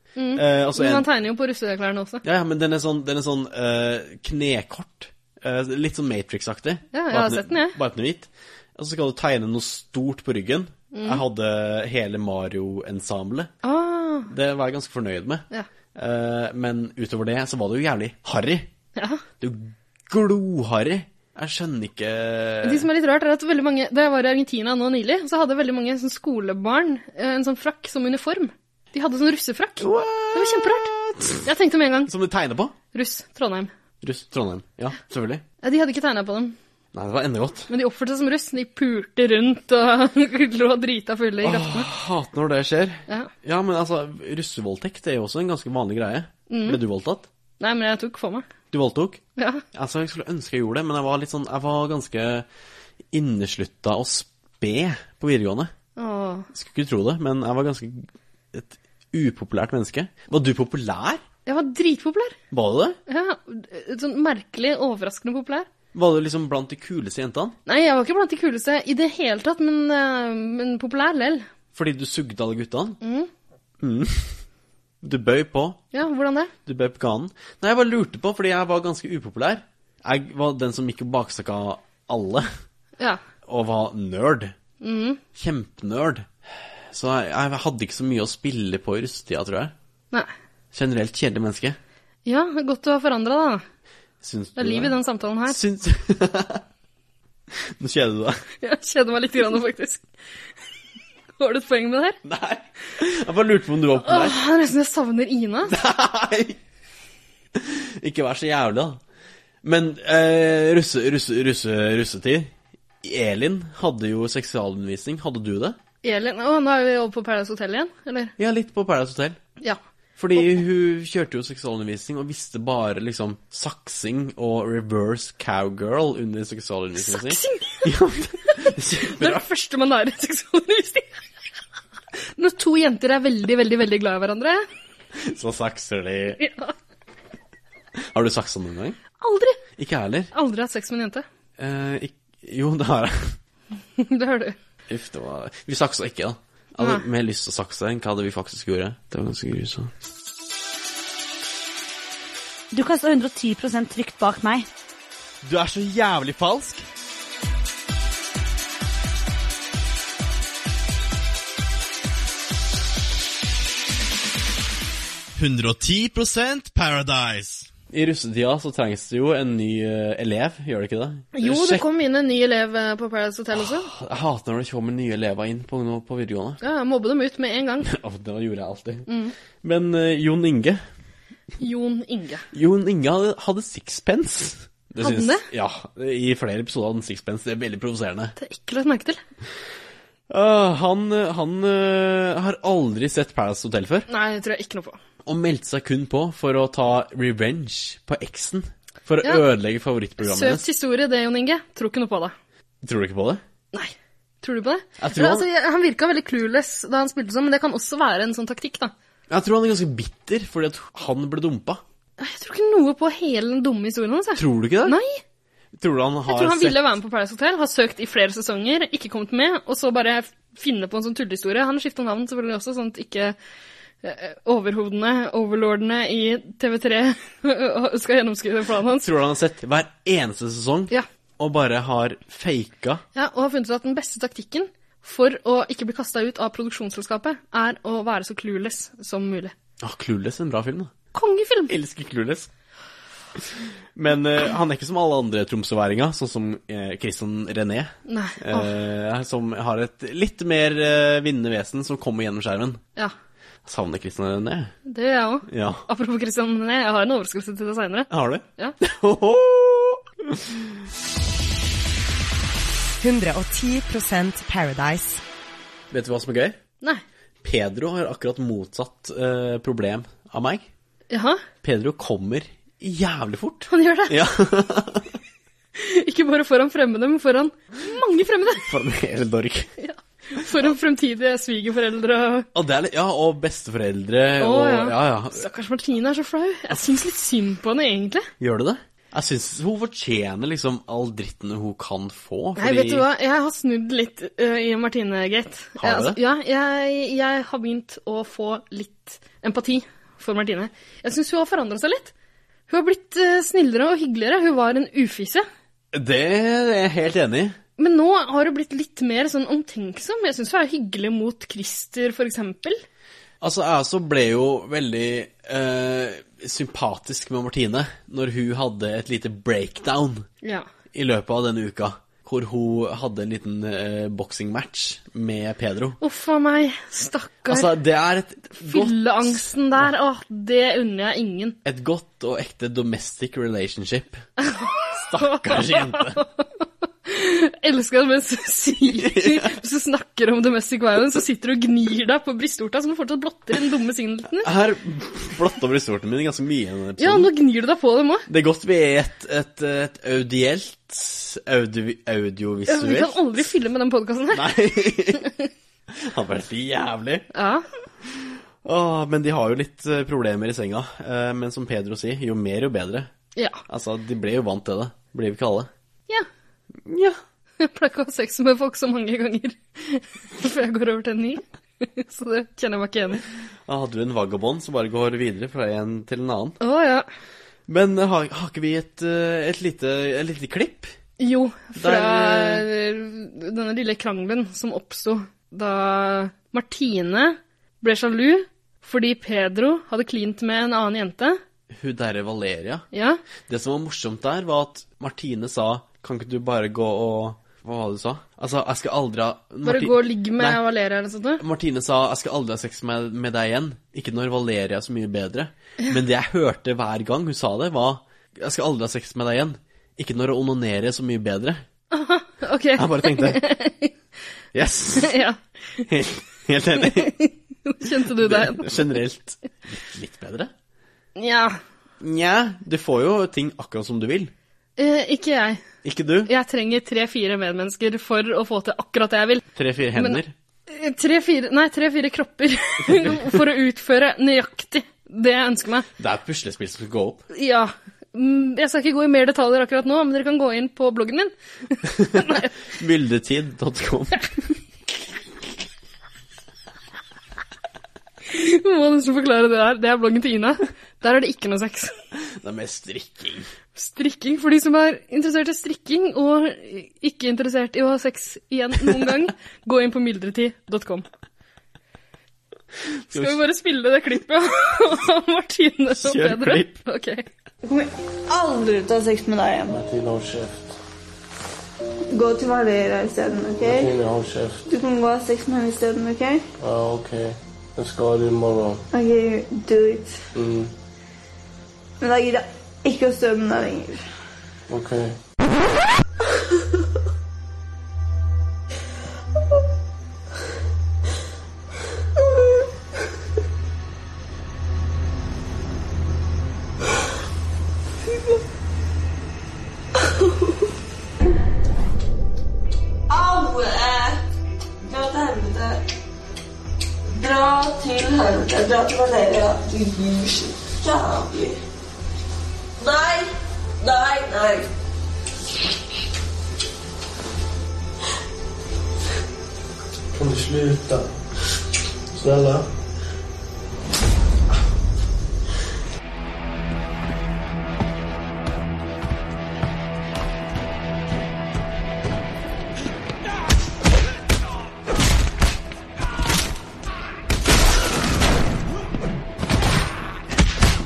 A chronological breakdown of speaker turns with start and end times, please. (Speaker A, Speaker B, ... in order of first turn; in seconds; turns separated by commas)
Speaker A: 0.2-2.2, Speaker B: 0.3-1.1, Speaker B: 2.2-13.5, Speaker A: 6.9-7.8, Speaker A: 10.9-11.2, Speaker A: 13.6-14.3, Speaker B: 14.3-18.7, Speaker A: 19.0-19.2, Speaker B: 19.4-22.9, Speaker A: 22.6-30.9, Speaker B: 29.8-31.5, Speaker A: 31.4-32.1, Speaker B: 32.1-32.8, Speaker A: 32.9-33.7, Speaker B: 34.0-35.4, Speaker A: 35.6-36.6, Speaker B: 36.9-37.7, Speaker A: 37.7-41.9, Speaker B: 41.4-47.3, Speaker A: 46.5-46.8, Speaker A: 47.6-48.5, Speaker B: 48.7-49.2, Speaker A: 49.4-49.6, Speaker B: 49.7-52.5, Speaker B: 53.1-55.7, Speaker A: 56.0-56.5, Speaker B: 56.5-61.2, Speaker A: 61.5-62.4, Speaker B: 62.5-63.0, Speaker A: 63.1-65.7, Speaker B: 65.9-67.6, Speaker A: 67.7-71.5, Speaker B: 71.7-73.0, Speaker A: 73.0-73.3, Speaker B: 73.8-74.4, Speaker B: 75.0-75.8, Speaker A: 75.9-76.5, Speaker B: 76.7-82.5, Speaker B: 83.5-84.5, Speaker A: 84.8-85.2, Speaker B: 85.3-86.3, Speaker B: 86.9-89.7, Speaker B: 90.7-91.8, Speaker A: 92.2-93.7, Speaker B: 94.2-94.9, Speaker A: 94.6-95.6, Speaker B: 95.5-96.6, Speaker B: 97.8-98.4, Speaker A: 98.6-100.0, Speaker A: 101.4-102.2, Speaker B: 102.2-104.4, Speaker A: 104.0-105.8, Speaker B: 105.7-106.6, Speaker B: 107.6-109.0, Speaker B: 109.6-112.5, Speaker B: 113.0-115.8, Speaker A: 116.0-118.3, Speaker B: 118.4-119.4, Speaker B: 120.2-129.4, Speaker A: 127.0-127.9, Speaker A: 128.4-131.2, Speaker A: 132.2-134.6, Speaker B: 135.2-136.4, Speaker A: 136.4-136.7, Speaker B: 138.1-139.0, Speaker A: 139.2-139.6, Speaker B: 139.8-140.3, Speaker A: 140.3-141.2, Speaker B: 141.6-143.4, Speaker A: 144.0-144.6, Speaker B: 144.9-149.9, Speaker A: 146.8-147.0, Speaker C: 152.7-154.7, Speaker B: 155.4-156.8, Speaker B: 165.4-171.8, Speaker A: 171.3-173.9, Speaker B: 173.6-176.6, Speaker A: 176.6-177.9, Speaker B: 177.8-179.1, Speaker A: 179.1-179.3, Speaker B: 179.6-180.8, Speaker A: 181.6-182.4, Speaker B: 182.5-188.3, Speaker A: 185.0-185.5, Speaker A: 188.4-189.2, Speaker B: 190.3-194.1, Speaker A: 194.1-195.0, Speaker B: 195.3-200.6, Speaker A: 200.2-202.3, Speaker B: 202.8-203.4, Speaker A: 203.7-208.9, Speaker B: 205.0-205.5, Speaker B: 209.3-211.8, Speaker A: 212.2-215.2, Speaker B: 214.4-215.0, Speaker B: 215.8-216.8, Speaker A: 216.3-223.4, Speaker A: 224.0-229.1, Speaker B: 228.9-233.0, Speaker A: 233.2-239.5, Speaker B: 239.8-240.9, Speaker A: 241.1-241.7, Speaker B: 241.7-242.5, Speaker B: 243.9-252.8, Speaker A: 248.1-248.7, Speaker B: 253.7-254.7, Speaker A: 254.9-258.8, Speaker B: 255.5-255.8, Speaker B: 258.1-260.7, Speaker D: 263.0-265.2, Speaker B: 265.9-266.6, Speaker B: 267.4-270.7, Speaker A: 271.1-271.4, Speaker B: 271.6-275.2, Speaker A: 273.7-274.2, Speaker A: 275.8-278.7, Speaker B: 278.6-279.7, Speaker A: 279.8-282.5, Speaker B: 282.5-285.4, Speaker A: 284.4-288.3, Speaker B: 288.4-293.1, Speaker A: 292.6-302.1, Speaker B: 295.8-296.2, Speaker A: 302.7-305.5, Speaker B: 305.9-307.6, Speaker A: 307.8-312.8, Speaker B: 313.4-320.3, Speaker A: 320.4-320.7, Speaker B: 320.9-326.0, Speaker A: 326.0-327.7, Speaker B: 327.5-329.5, Speaker A: 328.6-331.6, Speaker B: 331.6-334.2, Speaker A: 334.4-344.5, Speaker B: 334.9-336.2, Speaker B: 338.9-339.6, Speaker B: 344.4-347.3, Speaker A: 347.0-348.3, Speaker B: 348.3-353.2, Speaker A: 352.7-354.5, Speaker B: 354.3-355.3, Speaker A: 355.2-355.4, Speaker B: 355.9-357.3, Speaker A: 357.3-357.7, Speaker B: 358.1-363.1, Speaker A: 363.4-363.6, Speaker B: 363.7-365.7, Speaker B: 366.9-367.2, Speaker A: 367.6-373.2, Speaker B: 373.7-376.6, Speaker A: 376.6-377.1, Speaker B: 377.7-380.9, Speaker A: 381.2-391.4, Speaker B: 381.8-382.7, Speaker B: 391.7-392.9, Speaker A: 392.9-393.2, Speaker B: 393.5-400.6, Speaker A: 399.6-401.4, Speaker B: 401.4-411.6, Speaker A: 411.9-413.9, Speaker B: 412.8-413.4, Speaker B: 414.5-415.1, Speaker A: 415.0-415.8, Speaker B: 415.9-417.2, Speaker A: 416.8-419.0, Speaker B: 417.9-420.5, Speaker A: 421.2-421.6, Speaker B: 422.0-424.3, Speaker A: 424.8-425.6, Speaker B: 425.8-426.3, Speaker A: 426.3-435.9, Speaker B: 429.6-430.3, Speaker B: 432.9-433.3, Speaker B: 436.0-437.2, Speaker A: 437.3-442.5, Speaker B: 442.0-444.6, Speaker A: 448.3-451.9, Speaker B: 452.2-453.5, Speaker A: 453.8-461.1, Speaker B: 463.1-463.4, Speaker A: 463.1-467.3, Speaker B: 465.9-466.8, Speaker E: 467.6-469.8, Speaker F: 469.7-470.8, Speaker E: 472.1-474.0, Speaker F: 473.6-474.6, Speaker E: 474.7-476.4, Speaker F: 476.6-478.8, Speaker E: 478.9-480.2, Speaker F: 480.4-480.7, Speaker E: 482.0-484.0, Speaker F: 484.7-485.2, Speaker E: 498.1-498.4, Speaker E: 503.1-504.2, Speaker E: 504.8-505.9, Speaker E: 507.1-511.6, Speaker E: 512.8-514.7, Speaker F: 520.1-521.1, Speaker F: 522.1-522.7